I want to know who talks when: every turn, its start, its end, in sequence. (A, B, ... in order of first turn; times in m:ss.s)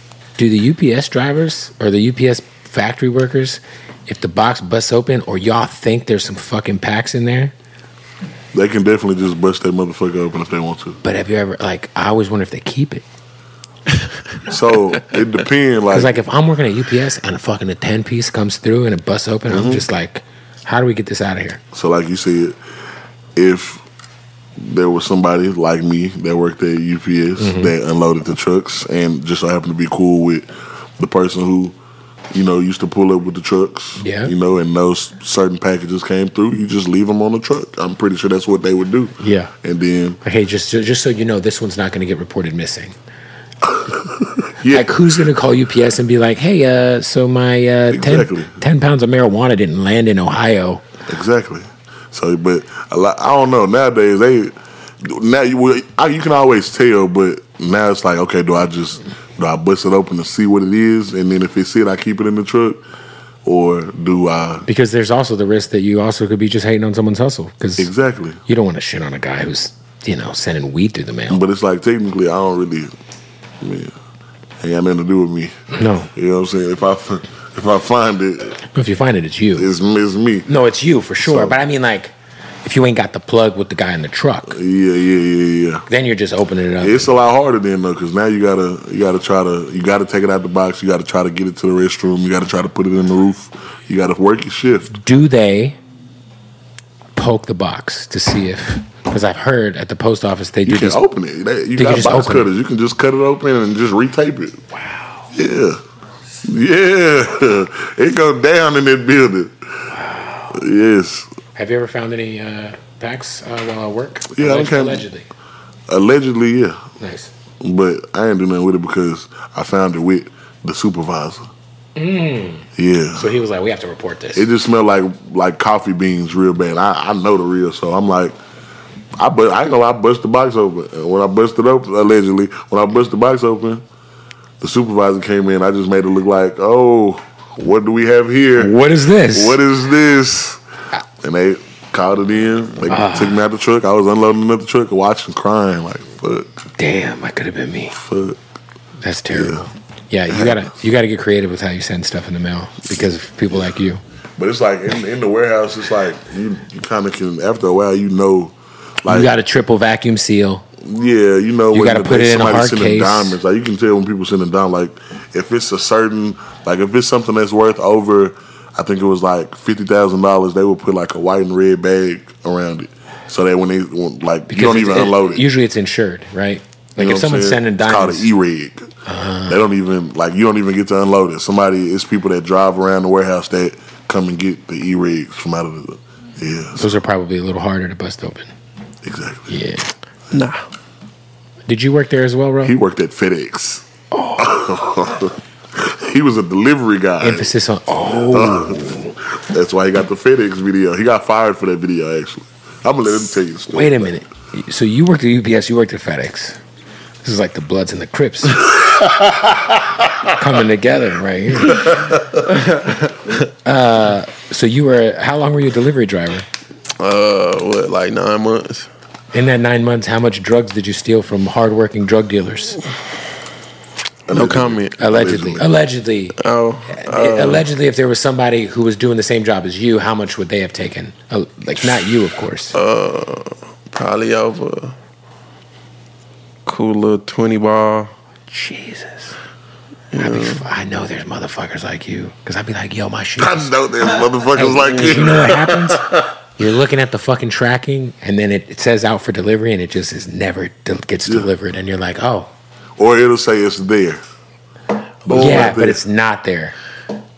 0:00.4-0:07.5 A
0:08.5-0:11.0 B
0:11.0-0:13.0 A
0:14.5-0:16.2 B
0:15.9-0:21.6 A
0:19.5-0:19.9 B
0:21.7-0:22.6 B
0:23.4-0:23.8 B
0:24.6-0:31.8 B
0:27.4-0:27.7 A
0:32.3-0:40.2 B
0:34.0-0:34.3 A
0:39.2-0:39.5 A
0:40.2-0:43.0 A
0:43.6-0:45.0 B
0:44.7-0:50.8 A
0:47.9-0:48.6 B
0:51.1-1:02.8 B
1:03.4-1:04.7 B
1:04.7-1:07.9 A
1:07.8-1:08.4 B
1:08.5-1:11.5 A
1:11.3-1:12.9 B
1:13.6-1:14.0 B
1:14.6-1:18.6 B
1:15.7-1:16.1 A
1:18.7-1:19.7 A
1:19.6-1:20.5 B
1:20.5-1:22.1 A
1:21.2-1:21.6 B
1:22.6-1:24.6 A
1:24.5-1:25.9 B
1:25.9-1:27.1 A
1:26.8-1:35.0 B
1:34.9-1:35.8 A
1:37.2-1:41.0 A
1:40.6-1:44.6 B
1:41.8-1:42.5 A
1:44.7-1:45.3 A
1:45.3-1:45.8 B
1:46.4-1:49.9 B
1:49.9-1:50.6 A
1:50.5-1:51.3 B
1:51.6-1:55.3 A
1:54.3-1:55.1 B
1:55.9-1:56.8 B
1:57.0-1:57.3 A
1:57.6-2:01.5 B
2:02.0-2:04.5 A
2:02.8-2:03.3 B
2:04.4-2:08.4 B
2:09.2-2:13.8 B
2:14.6-2:20.6 B
2:18.6-2:19.6 A
2:21.2-2:26.5 B
2:22.9-2:23.4 A
2:26.8-2:28.0 A
2:27.9-2:28.4 B
2:29.0-2:34.0 A
2:29.3-2:29.7 B
2:30.3-2:30.7 B
2:34.4-2:39.3 B
2:39.1-2:40.6 A
2:40.8-2:55.5 B
2:41.7-2:43.4 A
2:54.5-2:58.3 A
2:57.0-2:58.9 B
2:59.1-2:59.6 A
2:59.5-3:06.9 B
3:06.8-3:08.5 A
3:09.0-3:09.5 B
3:09.5-3:09.9 A
3:10.3-3:10.6 C
3:11.7-3:12.8 A
3:12.6-3:13.9 B
3:14.1-3:14.6 A
3:14.4-3:17.5 B
3:17.2-3:19.1 A
3:18.3-3:24.1 B
3:23.7-3:26.6 A
3:27.2-3:28.8 A
3:28.8-3:30.1 B
3:30.3-3:32.0 A
3:32.6-3:33.0 C
3:33.6-3:36.5 A
3:37.0-3:38.9 C
3:39.3-3:42.8 A
3:44.3-3:45.7 B
3:44.3-3:44.9 C
3:45.0-3:46.4 A
3:46.4-3:47.7 C
3:46.9-3:52.8 A
3:52.7-3:55.0 C
3:56.7-3:58.1 C
3:58.5-3:59.4 A
4:00.1-4:00.6 C
4:00.2-4:03.7 A
4:03.4-4:06.3 B
4:04.5-4:12.5 A
4:04.9-4:05.2 C
4:13.0-4:14.2 B
4:15.2-4:16.0 B
4:15.3-4:15.8 C
4:15.3-4:16.8 A